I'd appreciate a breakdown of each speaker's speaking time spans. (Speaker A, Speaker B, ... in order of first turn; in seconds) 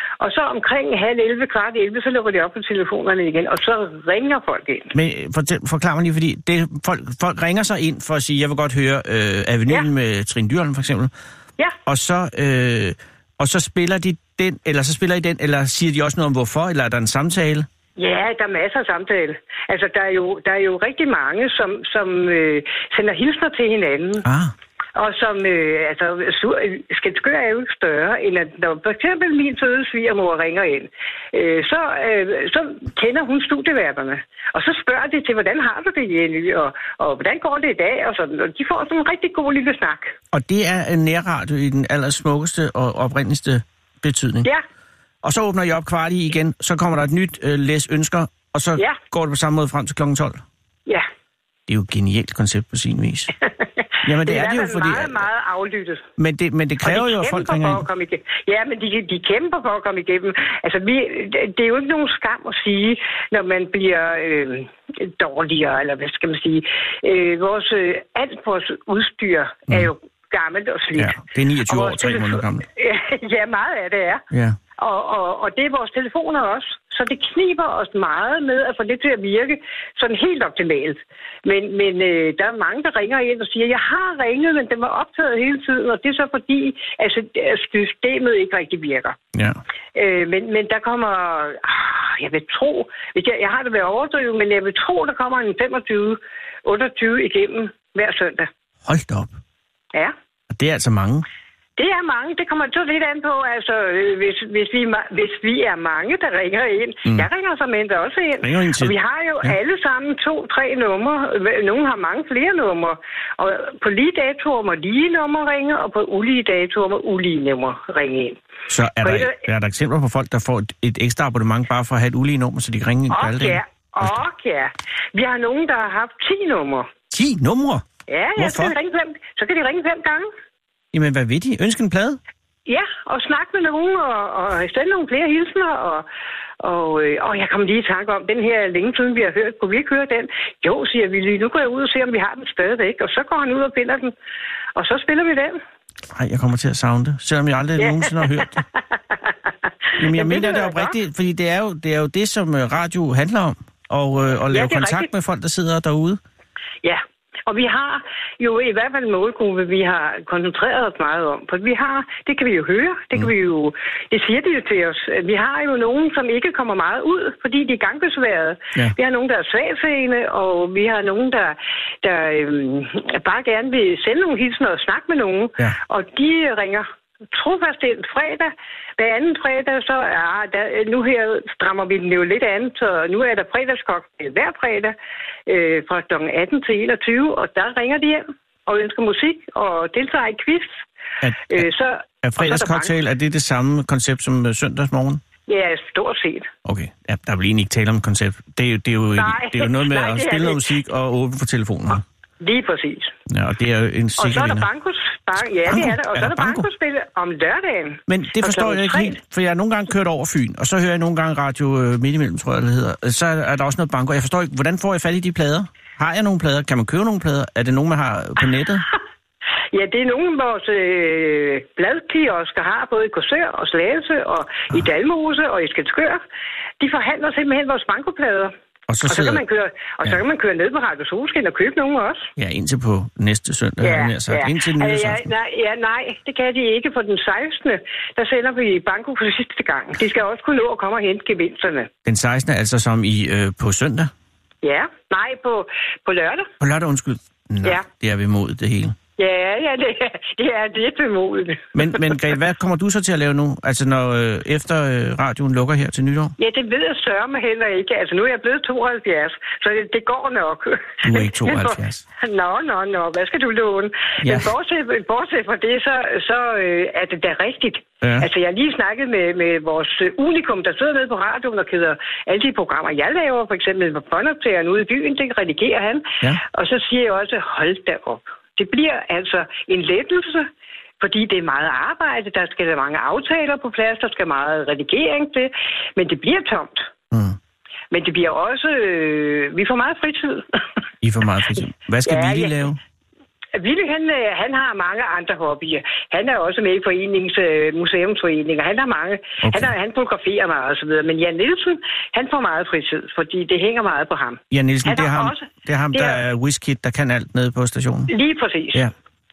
Speaker A: 0.2-4.9, 18.0-24.2, 25.0-40.1, 54.0-56.0, 56.8-71.2, 71.7-74.2, 74.8-89.2, 90.0-98.5, 101.8-118.4, 119.0-119.4, 123.1-126.9, 128.1-130.3, 132.7-136.1, 136.6-144.1, 144.8-145.6, 147.8-148.6, 150.0-150.9, 154.5-155.1, 156.8-184.9, 185.5-190.7, 191.5-192.9, 195.5-196.5, 199.1-200.7, 202.4-203.1, 204.2-209.2, 219.7-226.2, 226.8-228.5, 229.1-232.3, 233.8-241.9, 244.6-246.5, 249.2-252.1, 256.4-280.5, 281.0-286.9, 287.9-290.6, 292.1-292.6, 293.6-306.2, 308.1-308.8
Speaker B: 4.9-11.1, 11.9-17.7, 24.2-24.5, 40.3-44.5, 45.2-50.4, 51.7-53.3, 54.0-55.2, 56.2-57.9, 71.0-72.7, 74.3-74.6, 89.3-89.6, 98.8-99.3, 100.5-101.2, 108.4-109.5, 118.7-124.2, 127.1-127.8, 128.4-128.8, 130.9-132.2, 146.1-148.6, 150.0-156.2, 191.2-191.7, 192.2-195.2, 196.6-202.0, 203.3-204.7, 205.7-206.7, 208.1-218.9, 228.9-229.4, 232.4-235.3, 242.1-244.1, 246.6-249.0, 251.8-256.4, 261.0-262.1, 264.2-264.5, 268.0-268.3, 287.1-287.4, 291.0-292.8, 299.4-299.7, 304.5-308.1